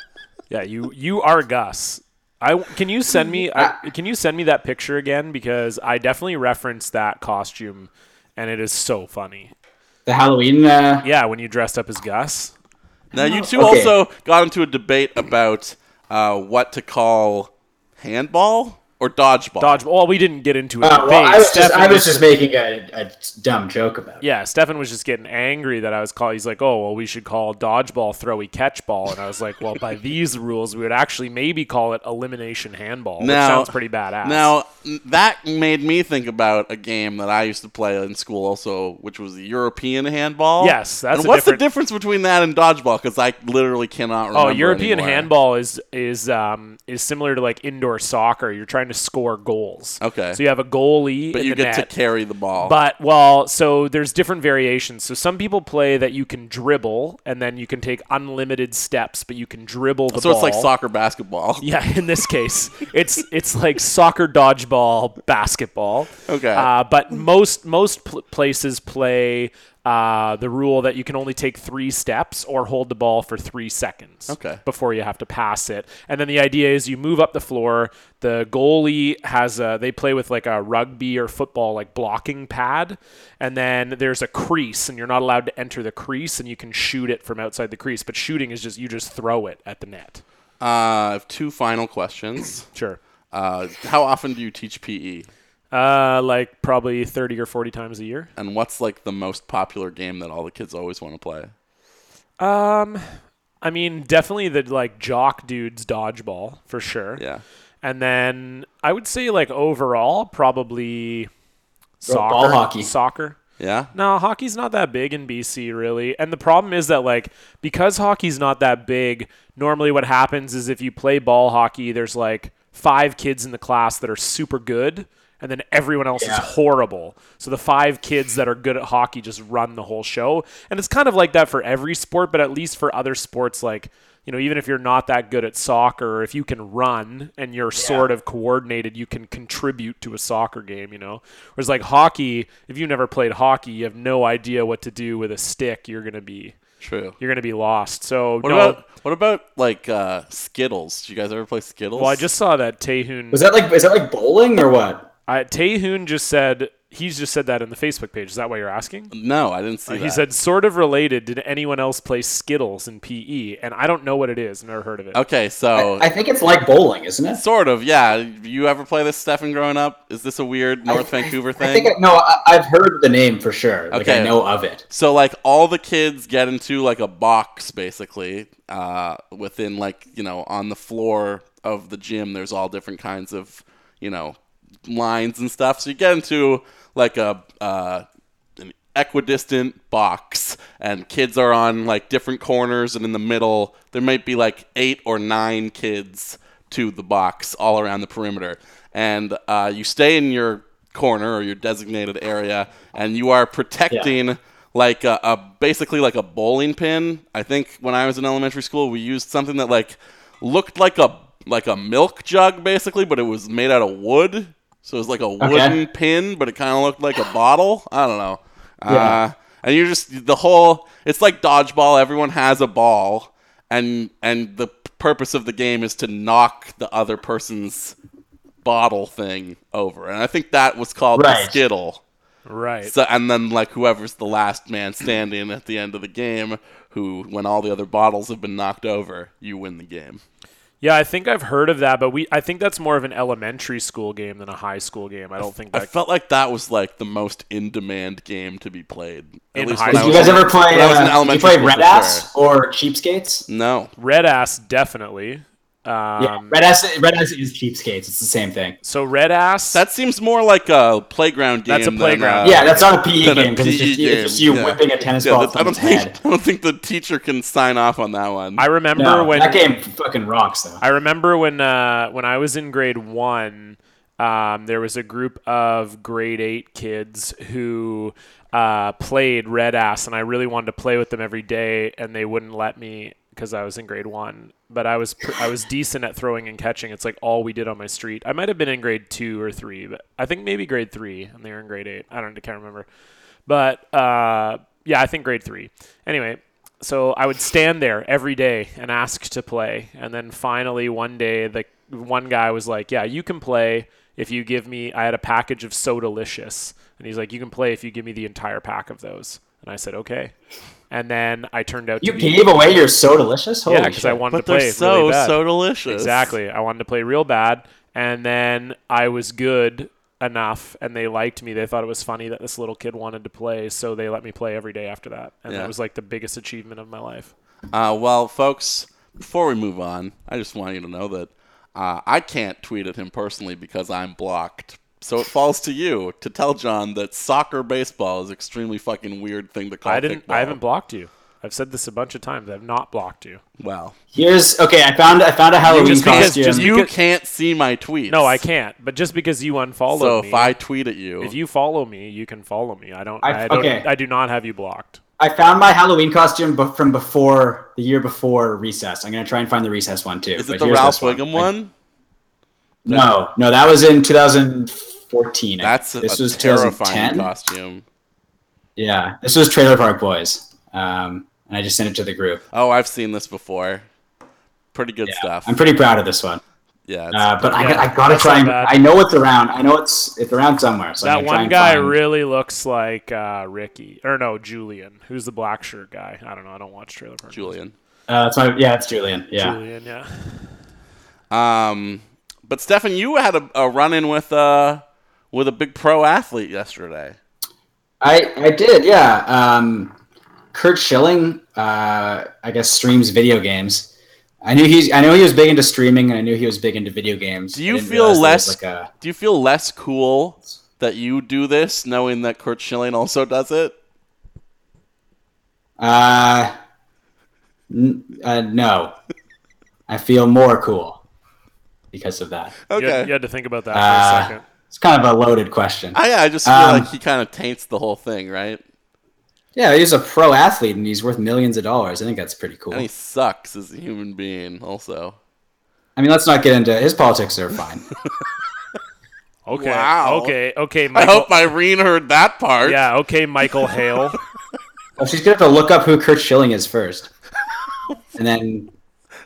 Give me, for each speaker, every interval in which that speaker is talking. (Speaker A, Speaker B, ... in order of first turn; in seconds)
Speaker A: 0.5-9.5, 11.0-12.5, 19.6-22.3, 24.2-34.5, 40.6-41.6, 44.3-51.9, 52.6-60.7, 61.6-90.2, 92.7-93.0, 95.7-98.3, 102.4-103.0, 103.6-107.2, 107.8-111.3, 112.0-113.4, 113.9-146.6, 147.2-148.8, 152.0-153.4, 155.3-159.1, 159.9-165.2, 232.5-232.9, 240.8-245.9, 249.5-250.4, 254.0-256.6, 258.8-259.8, 261.7-262.9, 268.6-269.6, 270.8-292.9, 293.5-310.3, 310.9-312.8, 313.7-327.3, 339.9-343.4, 345.7-346.9, 348.1-350.6, 351.2-355.0, 377.5-378.8, 381.0-387.6, 389.4-390.5, 422.8-424.4, 439.5-441.5, 442.6-444.2
Speaker B: 10.1-11.1, 13.2-14.0, 20.8-24.2, 112.1-112.9, 126.2-126.5, 137.8-138.1, 153.3-155.1, 165.8-167.4, 170.9-174.8, 215.4-215.8, 218.9-219.2, 231.2-231.6, 249.9-253.4, 256.2-258.8, 262.4-266.2, 269.0-270.8, 312.0-314.2, 344.1-346.7, 353.2-353.9, 355.2-361.5, 362.9-367.3, 368.8-372.4, 375.1-376.4, 377.1-382.0, 388.1-389.6, 398.0-399.9, 400.5-403.9, 404.4-408.9, 415.8-416.5, 417.7-419.0, 419.9-421.0, 421.9-422.6, 423.7-426.9, 429.6-432.9, 436.0-437.9, 445.0-447.1, 448.2-448.7
Speaker C: 13.1-19.8, 33.2-33.7, 34.2-45.3, 50.0-50.4, 51.3-52.8, 60.1-61.6, 66.3-66.7, 74.3-74.6, 90.6-92.7, 93.3-95.3, 98.4-101.5, 107.2-107.4, 113.6-113.9, 146.8-147.2, 148.4-152.2, 159.1-160.2, 165.1-166.1, 167.3-171.9, 173.9-174.3, 174.9-188.1, 188.6-227.9, 228.6-232.0, 232.8-240.2, 245.7-252.2, 253.5-253.9, 259.7-268.6, 314.3-316.3, 327.7-340.6, 343.6-343.9, 345.7-348.4, 349.9-351.3, 360.4-361.7, 365.6-367.8, 372.5-373.9, 374.7-375.6, 376.9-377.8, 387.3-387.7, 391.3-397.2, 407.5-413.8, 422.7-423.1, 425.9-428.6, 432.7-435.2, 439.5-440.4, 440.9-442.8